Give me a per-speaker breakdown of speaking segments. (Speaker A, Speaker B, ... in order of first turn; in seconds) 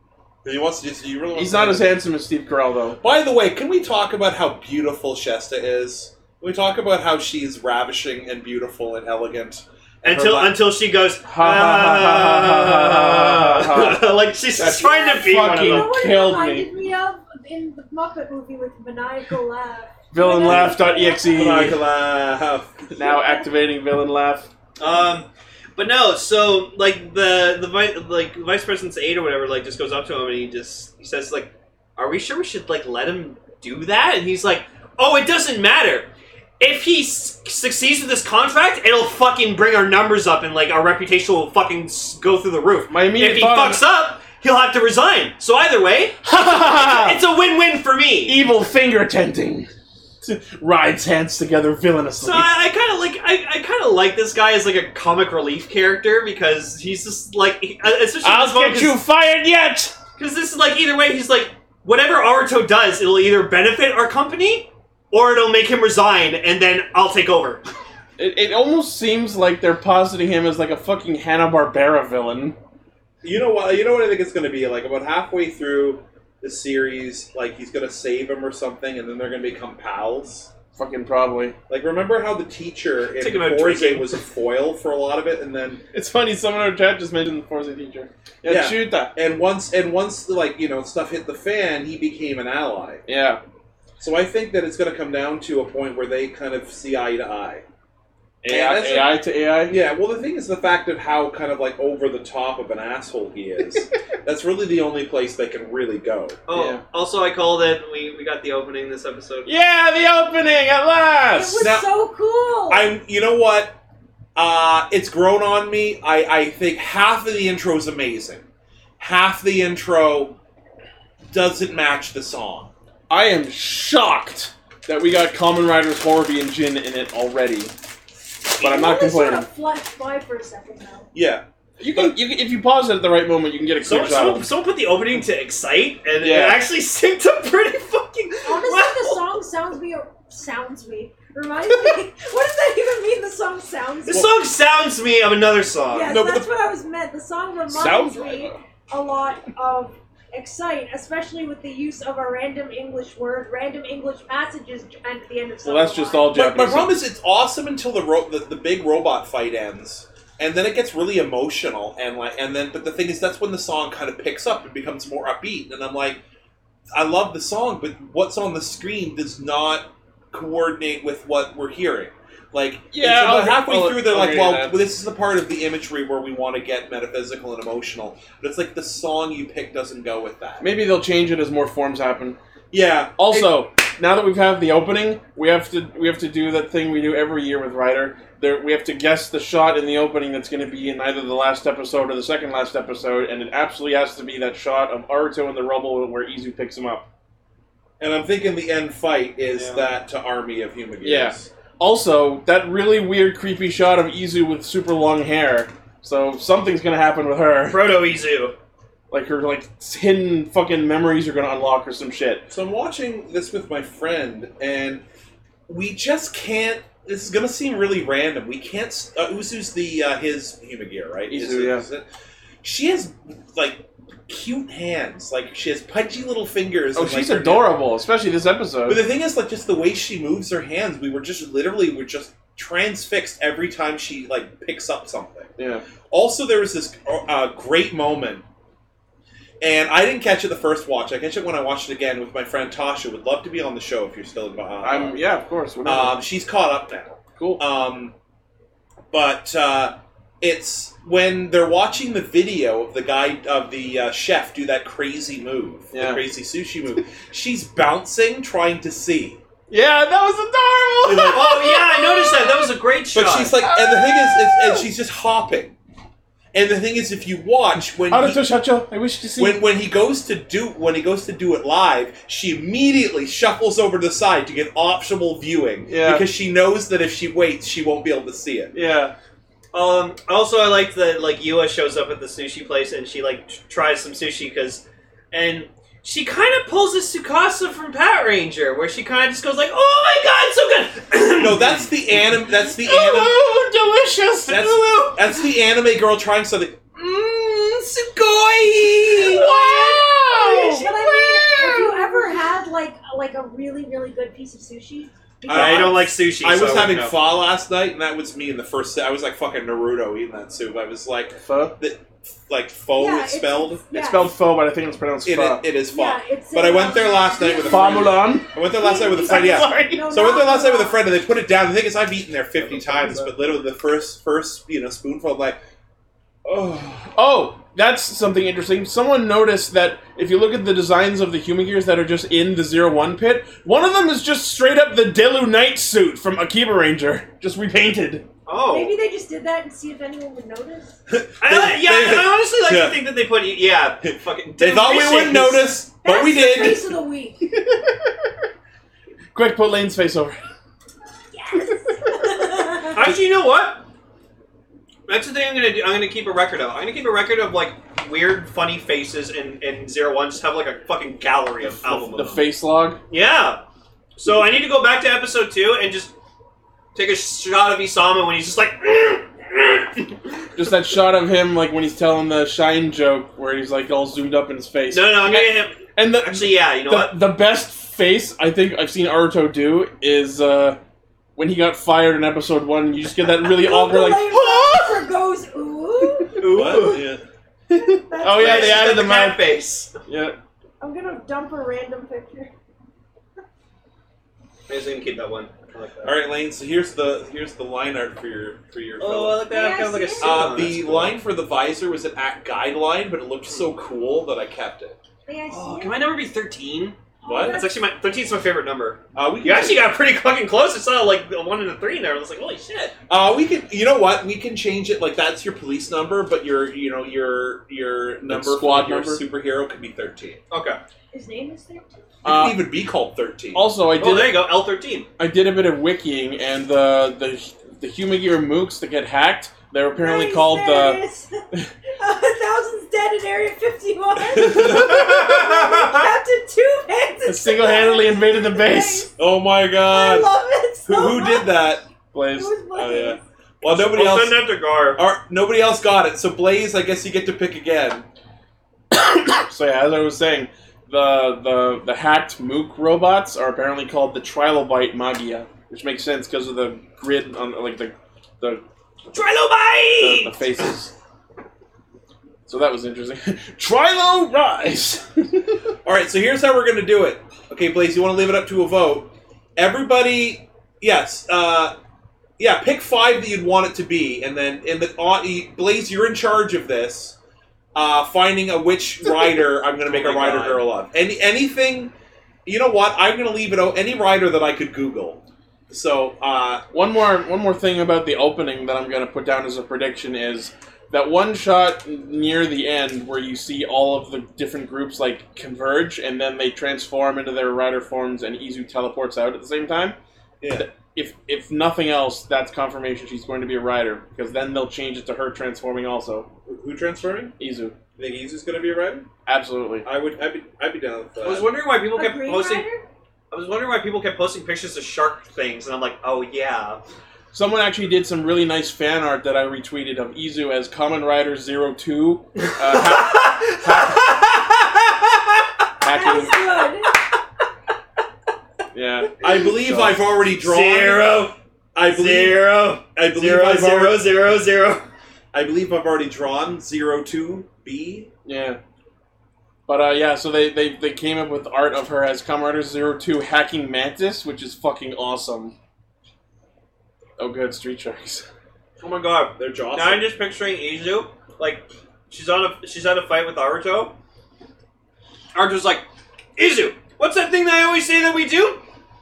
Speaker A: 0.4-1.9, 3.0-9.6, 20.5-20.7, 21.3-22.8, 73.2-80.5, 81.7-85.8, 88.5-93.0, 94.0-97.7, 98.5-106.4, 111.6-111.9, 112.7-113.8, 114.3-118.4, 119.0-120.4, 121.3-122.7, 131.1-132.1, 156.3-166.2, 166.9-180.7, 182.7-183.5, 198.0-201.5, 212.5-215.0, 215.7-222.1, 222.6-227.7, 228.9-235.5, 236.1-238.4, 239.6-245.2, 245.8-248.1, 249.1-259.4, 261.0-261.7, 263.1-265.8, 266.5-268.4, 269.4-278.7, 291.4-293.4, 294.5-299.5, 305.5-313.8, 315.2-325.6, 326.4-327.2, 341.1-343.1, 344.6-346.9, 386.5-387.2, 396.0-399.4, 400.2-405.0, 407.2-407.6, 409.1-409.9, 413.1-420.4, 422.2-423.7, 434.2-436.1, 439.2-440.3, 440.9-441.8, 442.7-444.4, 444.9-448.1, 465.9-471.8, 472.4-477.2, 477.8-481.9, 482.4-486.6, 500.4-500.7, 506.5-507.3, 508.0-509.1, 509.8-511.5, 529.2-532.4, 532.9-534.0, 535.3-538.1, 549.4-550.1
Speaker B: 1.4-3.0, 10.1-10.5, 11.2-16.7, 20.1-21.8, 22.9-24.5, 42.9-43.8, 46.2-47.2, 48.3-49.7, 50.2-52.5, 58.2-60.0, 68.2-72.6, 80.8-81.6, 85.9-89.1, 93.1-93.4, 98.4-99.8, 106.5-106.8, 109.5-111.6, 123.1-127.7, 128.6-129.5, 131.8-134.5, 136.2-136.7, 147.7-148.6, 155.6-157.0, 172.9-174.8, 180.6-182.4, 183.2-197.1, 201.0-207.8, 209.1-212.5, 221.3-221.8, 226.9-229.0, 235.6-235.8, 244.8-246.2, 247.4-247.6, 255.9-256.2, 259.7-262.7, 263.6-264.9, 268.1-269.6, 275.9-276.3, 278.7-279.1, 292.8-295.1, 299.2-302.4, 311.4-311.8, 313.9-315.6, 317.6-318.5, 319.2-320.2, 322.6-323.3, 327.1-338.3, 349.3-350.4, 361.8-363.0, 370.6-380.8, 381.4-384.9, 387.7-389.4, 390.1-390.4, 418.3-419.2, 422.2-422.6, 423.5-424.4, 425.2-431.0, 437.2-439.1, 442.1-442.5, 448.9-458.6, 460.0-460.9, 462.5-465.6, 486.7-500.0, 500.6-506.3, 507.4-507.8, 509.3-509.9, 517.3-524.0, 525.8-526.5, 528.7-529.1, 529.7-529.9, 538.3-538.6, 539.7-545.5, 547.2-548.3
Speaker C: 10.0-15.9, 24.8-36.1, 36.6-48.4, 52.2-59.0, 60.2-67.6, 83.2-84.2, 106.5-109.5, 133.8-139.3, 144.1-146.4, 199.5-199.9, 207.7-208.6, 261.3-263.6, 279.7-291.9, 294.5-295.3, 305.5-307.1, 338.5-338.9, 341.4-345.7, 352.8-353.9, 355.1-362.4, 363.1-363.6, 364.2-366.1, 366.9-370.3, 374.9-377.1, 386.4-387.1, 388.2-389.9, 394.7-396.2, 399.0-401.2, 405.5-412.9, 420.5-420.8, 424.0-425.1, 443.6-445.0, 459.1-460.7, 479.9-480.6, 511.2-512.7, 513.3-516.8, 522.4-525.5, 530.2-534.9, 548.8-553.9, 555.3-555.9, 556.4-558.6
Speaker D: 14.6-21.8, 23.0-23.5, 111.3-112.9, 128.6-131.1, 138.5-144.3, 145.9-156.4, 299.4-305.8, 313.0-314.3, 315.9-321.0, 338.7-341.0, 346.0-347.4, 351.4-353.0, 383.5-386.7, 387.8-389.1, 390.8-392.5, 399.5-400.5, 405.3-406.1, 407.2-407.7, 421.1-422.0, 430.0-431.4, 432.0-439.1, 439.9-441.6, 442.4-443.2, 511.9-512.8, 525.9-526.9